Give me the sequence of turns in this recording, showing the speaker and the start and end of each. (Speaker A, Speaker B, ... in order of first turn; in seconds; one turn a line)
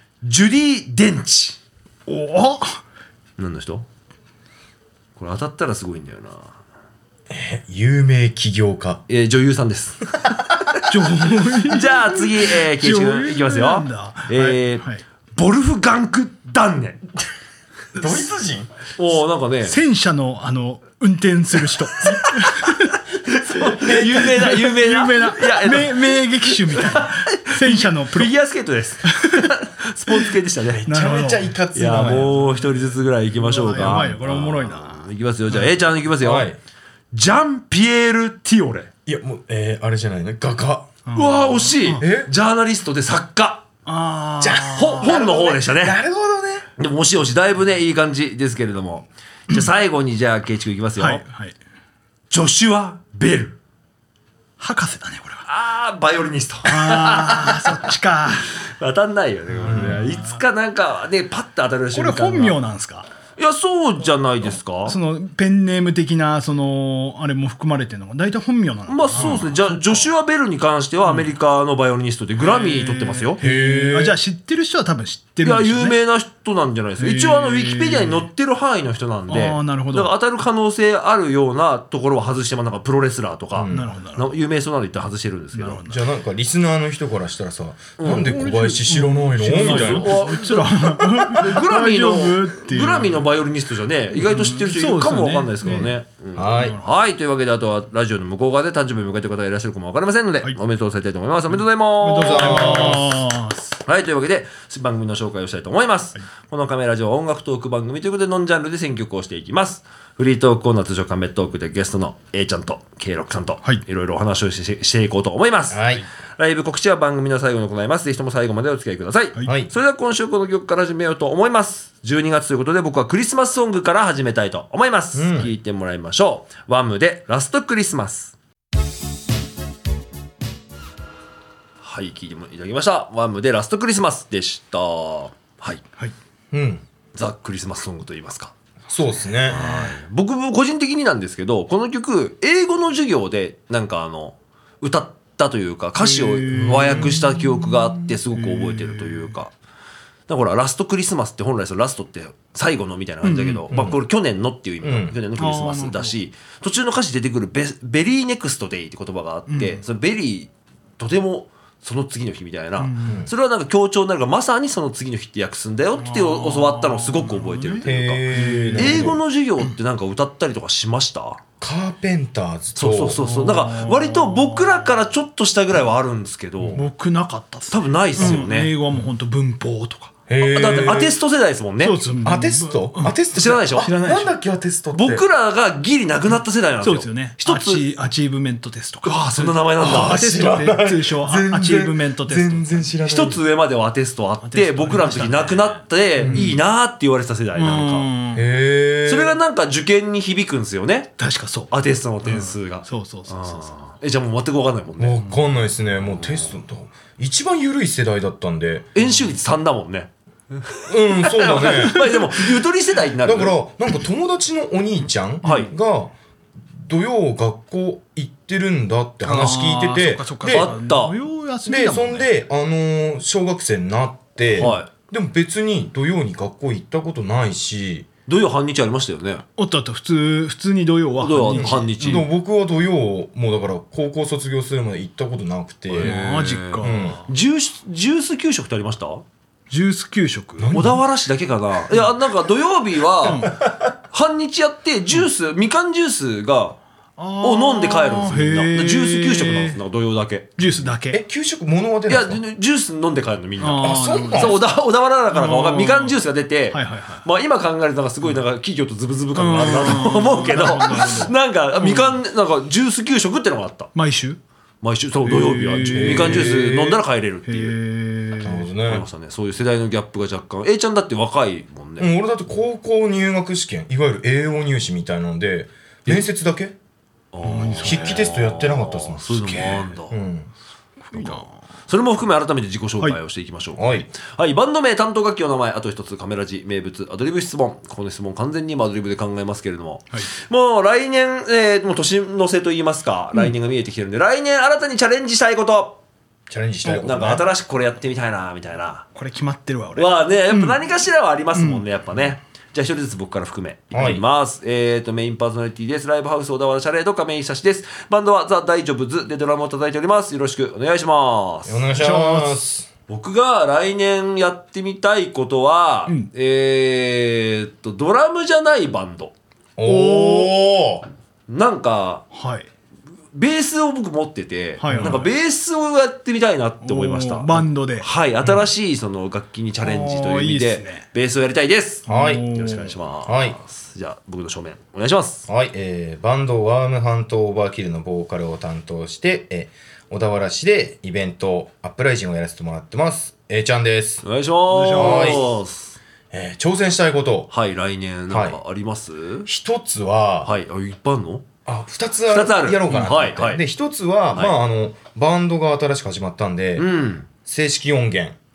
Speaker A: 0.2-1.6
Speaker B: 2.1-2.8
Speaker A: 3.4-3.9
Speaker A: 5.2-6.5
Speaker C: 7.3-9.0
Speaker A: 9.1-10.2
Speaker B: 10.9-15.0
Speaker A: 11.6-17.0
Speaker C: 17.9-18.7
Speaker A: 18.9-19.8
Speaker B: 19.6-23.0
Speaker A: 22.0-31.0
Speaker B: 23.6-28.3
Speaker C: 23.8-24.2
Speaker B: 29.1-29.6
Speaker B: 30.1-30.3
Speaker B: 30.9-32.8
Speaker C: 30.9-32.5
Speaker A: 31.7-36.5
Speaker B: 33.4-35.7
Speaker C: 33.8-34.1
Speaker C: 36.2-36.6
Speaker A: 37.1-38.9
Speaker C: 39.0-40.9
Speaker B: 41.0-42.0
Speaker A: 41.1-43.6
Speaker C: 42.0-42.3
Speaker B: 43.9-45.2
Speaker C: 44.4-46.6
Speaker A: 44.7-46.0
Speaker A: 46.8-51.2
Speaker B: 51.0-51.5
Speaker A: 52.3-53.5
Speaker B: 54.6-55.4
Speaker A: 55.5-57.9
Speaker B: 56.6-58.5
Speaker A: 58.5-62.6
Speaker B: 59.6-60.4
Speaker C: 59.6-60.0
Speaker B: 61.9-63.1
Speaker A: 63.4-65.0
Speaker B: 64.8-70.1
Speaker A: 68.9-73.4
Speaker C: 69.1-69.5
Speaker B: 72.4-76.0
Speaker C: 73.4-74.2
Speaker A: 75.4-85.8
Speaker B: 77.0-78.3
Speaker B: 79.3-80.1
Speaker C: 83.5-83.9
Speaker B: 83.7-84.2
Speaker B: 85.5-86.0
Speaker C: 85.8-90.3
Speaker A: 88.0-88.4
Speaker B: 88.0-93.2
Speaker A: 89.4-103.0
Speaker B: 94.1-96.9
Speaker C: 96.4-96.8
Speaker B: 102.0-103.8
Speaker C: 102.2-103.2
Speaker A: 103.8-128.3
Speaker C: 115.7-116.0
Speaker C: 119.4-119.7
Speaker C: 125.1-125.5
Speaker A: 131.8-135.8
Speaker C: 136.5-136.8
Speaker A: 137.1-138.5
Speaker C: 138.9-139.6
Speaker A: 139.5-149.5
Speaker B: 139.6-139.9
Speaker B: 146.0-149.3
Speaker A: 150.3-171.4
Speaker B: 153.2-153.9
Speaker C: 154.8-155.2
Speaker B: 155.4-156.2
Speaker B: 159.5-159.8
Speaker B: 162.8-163.2
Speaker C: 163.0-163.3
Speaker B: 166.0-169.7
Speaker C: 167.8-169.2
Speaker C: 171.6-173.2
Speaker A: 172.8-176.8
Speaker B: 173.2-175.0
Speaker B: 176.7-180.1
Speaker A: 177.7-178.7
Speaker C: 180.3-181.2
Speaker A: 180.4-182.0
Speaker B: 181.8-183.2
Speaker C: 182.2-185.2
Speaker A: 183.3-183.9
Speaker B: 183.7-184.3
Speaker A: 184.9-187.8
Speaker B: 186.8-192.9
Speaker A: 189.0-190.2
Speaker C: 189.8-193.4
Speaker A: 193.0-198.1
Speaker B: 194.4-196.5
Speaker C: 196.2-196.6
Speaker B: 197.6-198.4
Speaker C: 198.3-199.4
Speaker A: 199.1-201.1
Speaker B: 201.2-201.7
Speaker A: 201.7-205.2
Speaker B: 202.2-203.7
Speaker C: 205.0-208.9
Speaker A: 206.2-206.5
Speaker A: 208.9-213.6
Speaker C: 210.9-212.1
Speaker B: 211.7-212.0
Speaker C: 213.2-216.1
Speaker A: 215.4-215.7
Speaker C: 216.8-220.7
Speaker B: 219.2-222.2
Speaker A: 220.4-221.2
Speaker C: 221.7-228.1
Speaker A: 224.5-224.9
Speaker A: 228.3-229.4
Speaker B: 229.6-232.2
Speaker A: 231.2-232.3
Speaker C: 231.5-236.2
Speaker B: 235.9-237.3
Speaker A: 236.0-239.2
Speaker C: 236.8-237.2
Speaker B: 239.7-240.8
Speaker C: 240.6-241.0
Speaker A: 240.7-243.5
Speaker B: 243.2-243.5
Speaker C: 243.6-243.8
Speaker A: 244.1-246.8
Speaker B: 247.2-249.8
Speaker A: 247.4-250.5
Speaker B: 250.6-251.2
Speaker C: 251.1-252.4
Speaker A: 252.1-263.9
Speaker B: 253.6-254.6
Speaker C: 253.8-254.6
Speaker B: 255.3-256.2
Speaker B: 256.7-257.2
Speaker B: 259.3-262.2
Speaker C: 260.6-261.1
Speaker B: 263.9-264.4
Speaker A: 264.8-267.8
Speaker B: 265.2-266.5
Speaker C: 265.9-267.0
Speaker B: 267.5-268.6
Speaker C: 268.4-269.1
Speaker A: 268.8-272.1
Speaker C: 272.0-276.7
Speaker A: 277.3-280.2
Speaker B: 277.4-278.1
Speaker C: 277.7-280.5
Speaker B: 281.1-281.6
Speaker A: 281.1-296.0
Speaker C: 283.8-284.1
Speaker C: 296.5-297.4
Speaker A: 296.8-299.0
Speaker B: 299.1-300.8
Speaker A: 299.9-311.9
Speaker B: 301.5-301.8
Speaker C: 303.9-304.2
Speaker C: 311.6-312.9
Speaker B: 311.9-312.6
Speaker A: 313.1-319.3
Speaker C: 319.8-321.1
Speaker B: 319.8-320.5
Speaker A: 321.5-322.2
Speaker B: 322.3-322.7
Speaker A: 323.3-335.4
Speaker B: 324.8-325.3
Speaker C: 324.9-325.2
Speaker B: 326.8-328.1
Speaker B: 329.8-331.0
Speaker C: 332.1-332.5
Speaker B: 332.1-332.9
Speaker C: 333.2-333.6
Speaker C: 335.5-344.2
Speaker A: 344.2-346.0
Speaker B: 344.7-345.4
Speaker C: 344.9-345.5
Speaker C: 346.3-347.5
Speaker A: 347.5-349.5
Speaker C: 348.3-348.6
Speaker C: 349.4-350.5
Speaker A: 350.4-351.4
Speaker C: 351.6-358.4
Speaker A: 352.3-353.6
Speaker A: 356.8-357.3